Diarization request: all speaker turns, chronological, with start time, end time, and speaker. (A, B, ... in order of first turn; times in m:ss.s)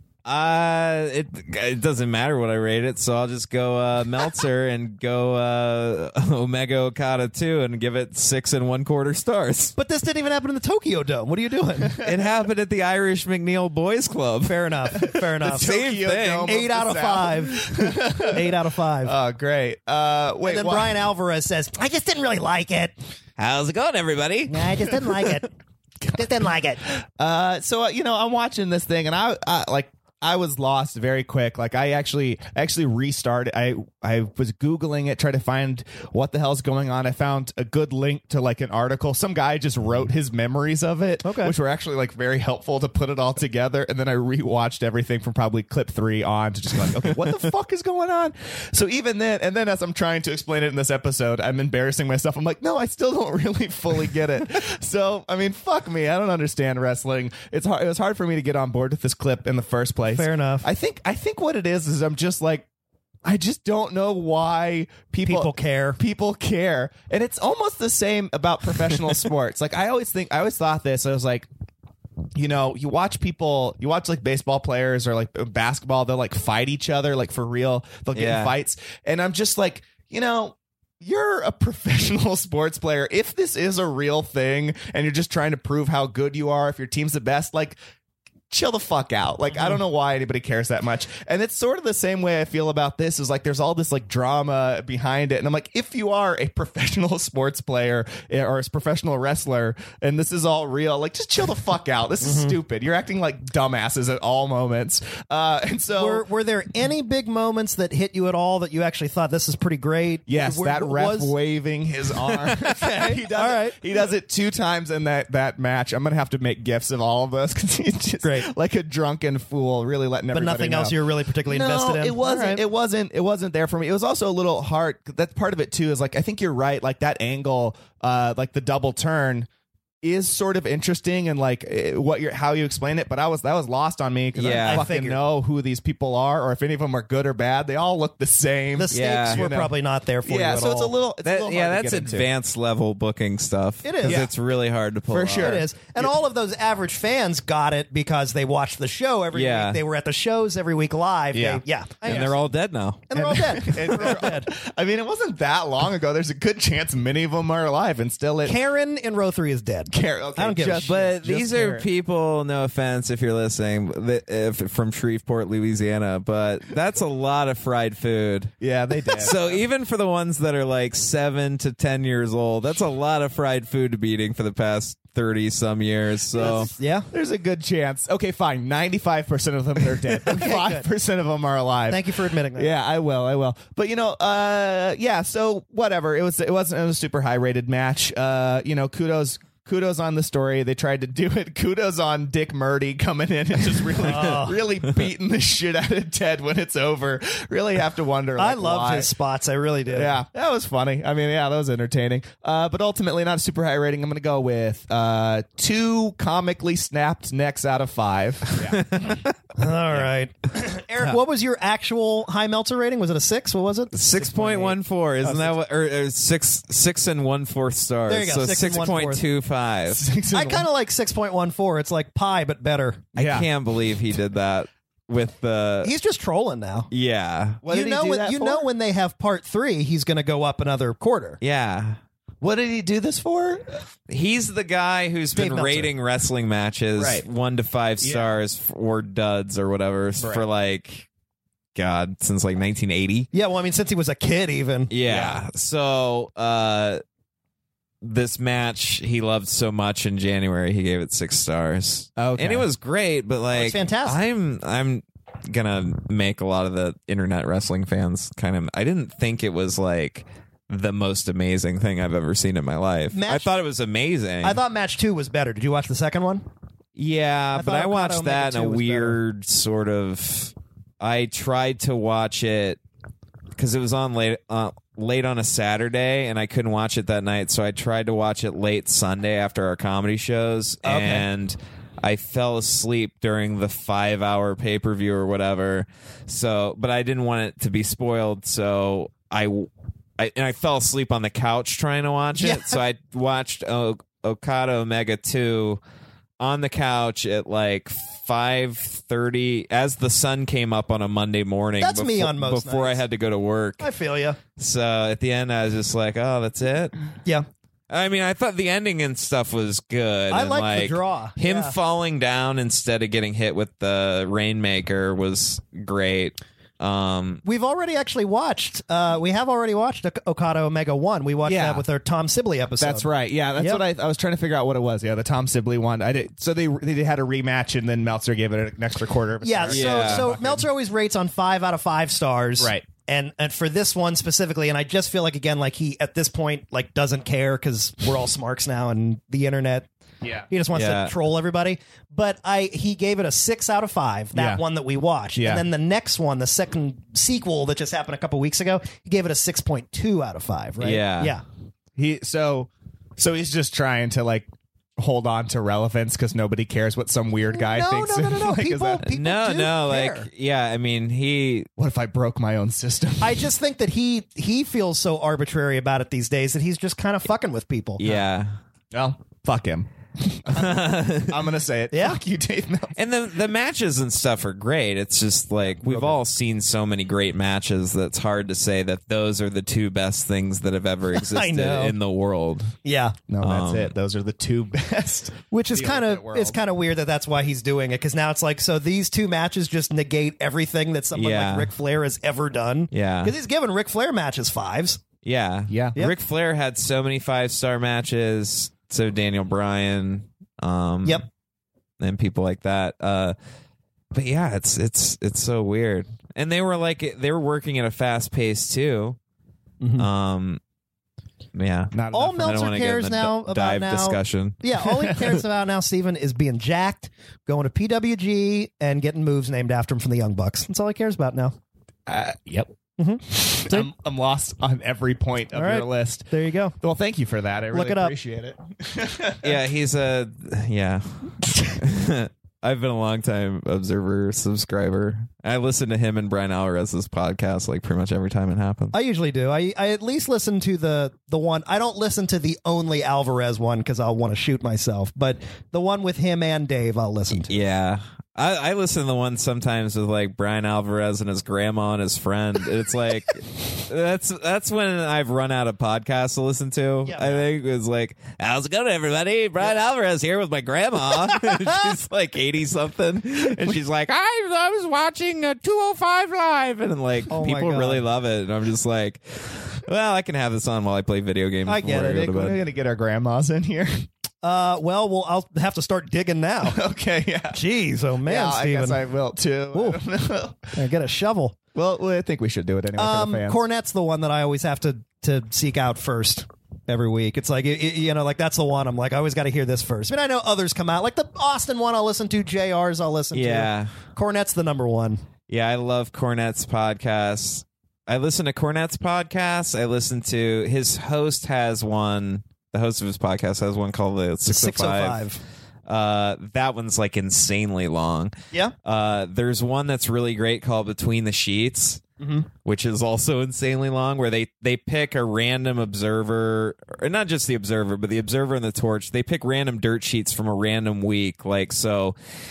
0:00.2-0:09.8 A
0:09.8-0:11.9 B
0:11.9-0:12.2 C
0:12.0-0:16.6 A
0:14.4-0:15.7 B
0:15.4-0:21.0 C
0:16.5-0:19.1 B
0:20.4-0:22.9 B
0:23.4-0:24.7 A
0:24.5-0:25.5 B
0:26.1-0:26.8 B
0:27.0-1:02.7 C
0:41.2-0:41.5 B
1:00.1-1:00.7 B
1:03.2-1:11.5 C
1:05.2-1:06.0 B
1:12.4-1:27.8 C
1:18.1-1:18.5 A
1:28.5-1:46.2 C
1:42.2-1:42.6 B
1:46.0-1:51.3 B
1:50.3-2:09.5 C
1:52.8-1:53.8 B
1:58.2-1:58.5 B
2:00.3-2:02.6 B
2:10.0-2:19.7 C
2:14.4-2:15.2 B
2:14.4-2:14.9 A
2:18.8-2:20.9 B
2:18.9-2:19.4 A
2:20.3-2:22.3 C
2:21.2-2:25.6 A
2:23.8-2:24.3 B
2:24.0-2:24.3 C
2:25.1-2:26.1 C
2:25.3-2:32.4 B
2:29.3-2:29.8 A
2:31.3-2:31.6 C
2:32.0-2:33.1 A
2:33.1-2:34.5 B
2:33.1-2:38.6 C
2:38.4-2:40.9 B
2:39.9-2:41.9 C
2:40.8-2:48.6 A
2:48.6-2:49.6 C
2:49.2-2:56.7 A
2:56.4-3:19.1 C
2:56.4-2:57.1 B
3:00.3-3:00.9 B
3:01.9-3:02.7 B
3:14.0-3:14.6 B
3:18.4-3:20.2 B
3:19.9-3:28.9 C
3:28.7-3:29.3 A
3:29.6-3:35.5 B
3:33.9-3:40.0 A
3:38.1-3:39.2 B
3:39.9-3:40.7 C
3:40.3-3:43.1 B
3:43.2-3:43.5 C
3:43.2-3:45.9 A
3:45.8-3:46.9 B
3:46.9-3:47.6 A
3:47.6-3:48.7 C
3:47.7-3:51.4 B
3:51.4-3:52.0 A
3:52.4-3:53.8 C
3:54.1-4:01.1 A
3:55.4-3:55.9 B
3:57.0-3:57.2 C
3:58.0-3:58.4 C
4:00.2-4:00.4 C
4:01.8-4:03.3 A
4:03.3-4:04.9 B
4:04.9-4:07.0 A
4:05.0-4:05.4 C
4:08.0-4:24.6 A
4:12.2-4:12.7 C
4:13.5-4:14.2 B
4:23.1-4:23.5 B
4:24.4-4:26.4 B
4:27.0-4:32.8 A
4:27.6-4:29.2 B
4:33.6-4:55.8 A
4:40.8-4:41.2 B
4:52.4-4:52.8 B
4:56.4-5:03.9 A
5:01.8-5:03.0 B
5:03.8-5:04.4 B
5:04.6-5:07.0 A
5:07.9-5:17.4 A
5:10.3-5:11.8 B
5:17.4-5:23.8 B
5:21.4-5:21.8 C
5:22.8-5:30.7 C
5:29.4-5:39.9 B
5:29.7-5:30.3 A
5:32.6-5:32.9 C
5:40.2-5:40.5 C
5:40.5-5:51.4 B
5:40.7-5:41.1 A
5:44.3-5:44.6 C
5:45.4-5:45.6 C
5:50.8-5:51.3 A
5:52.0-5:59.0 C
5:57.5-6:00.3 B
5:59.0-6:01.7 A
6:01.8-6:03.5 C
6:03.2-6:08.0 B
6:08.0-6:08.6 A
6:08.9-6:13.0 C
6:10.5-6:11.4 A
6:11.9-6:12.2 B
6:13.0-6:22.7 A
6:15.7-6:16.2 C
6:21.2-6:22.0 B
6:22.8-6:23.2 B
6:23.3-6:26.6 C
6:23.4-6:23.9 A
6:25.5-6:35.0 B
6:31.2-6:31.7 A
6:32.9-6:33.3 A
6:35.2-6:41.2 A
6:35.7-6:36.0 C
6:42.0-6:43.4 A
6:44.1-6:49.2 A
6:49.8-6:50.1 B
6:50.0-6:50.6 A
6:51.6-6:54.6 A
6:51.9-6:52.6 C
6:52.1-7:01.6 B
7:02.1-7:02.7 C
7:03.0-7:03.9 B
7:03.3-7:09.6 C
7:05.5-7:06.8 B
7:07.7-7:08.1 B
7:09.4-7:19.0 A
7:18.9-7:27.5 B
7:27.5-7:52.6 A
7:37.1-7:37.4 B
7:47.3-7:48.0 B
7:51.7-7:52.3 B
7:51.9-7:54.1 C
7:54.4-7:56.8 B
7:56.6-7:57.6 C
7:57.5-7:59.0 B
7:58.2-8:00.7 C
7:59.7-8:00.0 B
8:00.7-8:01.6 B
8:01.8-8:03.6 C
8:03.0-8:15.2 B
8:13.3-8:13.9 A
8:15.5-8:25.2 A
8:24.5-8:25.4 B
8:25.9-8:28.3 A
8:28.8-8:32.0 A
8:32.2-8:32.5 B
8:32.6-8:42.2 A